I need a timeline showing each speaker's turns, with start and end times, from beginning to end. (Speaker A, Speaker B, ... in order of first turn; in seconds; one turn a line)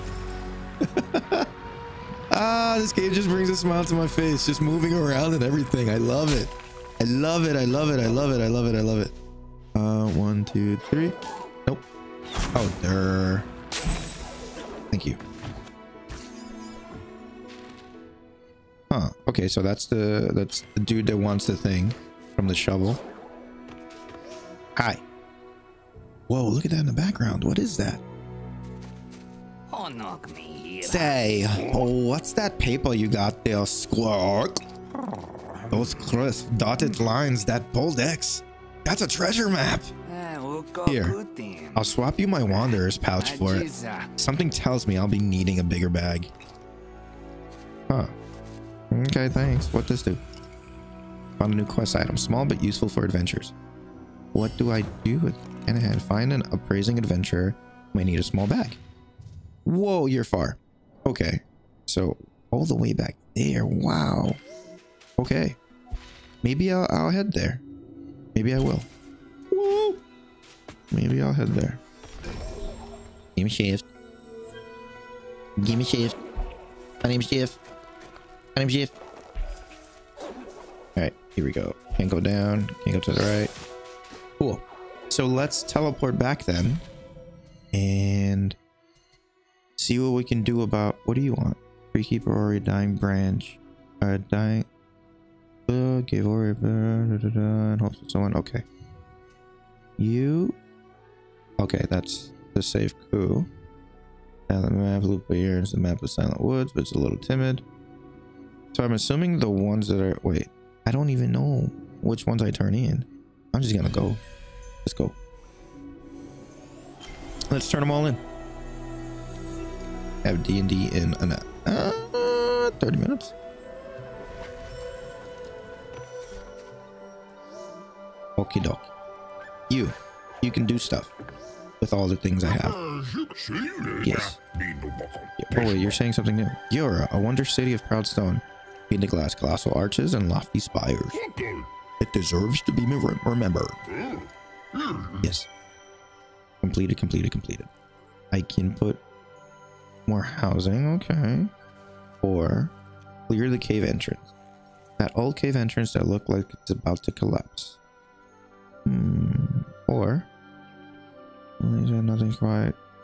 Speaker A: 0.8-1.5
Speaker A: 2.3-9.1
Speaker A: 9.7-11.8
Speaker A: 12.6-13.5
Speaker A: 14.9-15.2
Speaker A: 18.9-23.0
Speaker A: 24.8-25.0
Speaker A: 26.3-28.0
Speaker B: 29.7-31.6
Speaker A: 30.8-34.6
Speaker A: 35.7-39.9
Speaker B: 40.1-41.9
Speaker A: 40.9-41.2
Speaker A: 41.8-43.7
Speaker B: 42.5-44.1
Speaker A: 44.2-46.3
Speaker A: 48.9-50.2
Speaker A: 51.4-53.5
Speaker A: 54.3-58.8
Speaker A: 59.6-64.4
Speaker A: 65.2-65.6
Speaker A: 66.4-67.6
Speaker A: 68.3-68.9
Speaker A: 69.5-70.0
Speaker A: 70.9-71.8
Speaker A: 73.4-73.9
Speaker A: 75.6-76.2
Speaker A: 77.0-77.6
Speaker A: 78.5-79.0
Speaker A: 81.0-83.5
Speaker A: 84.4-86.8
Speaker A: 87.7-88.6
Speaker A: 89.8-94.7
Speaker A: 95.7-98.7
Speaker A: 100.0-100.6
Speaker A: 101.6-103.5
Speaker A: 104.5-107.6
Speaker A: 108.7-114.2
Speaker A: 114.8-115.2
Speaker A: 117.5-118.2
Speaker A: 120.2-123.3
Speaker A: 128.4-128.9
Speaker A: 129.7-131.1
Speaker A: 131.8-132.8
Speaker A: 133.9-134.4
Speaker A: 135.4-141.2
Speaker A: 142.0-143.8
Speaker A: 145.2-145.5
Speaker A: 146.6-147.7
Speaker A: 148.3-149.0
Speaker A: 150.1-151.5
Speaker A: 152.2-152.7
Speaker A: 153.3-154.3
Speaker A: 155.0-157.8
Speaker A: 158.8-160.3
Speaker A: 161.6-162.8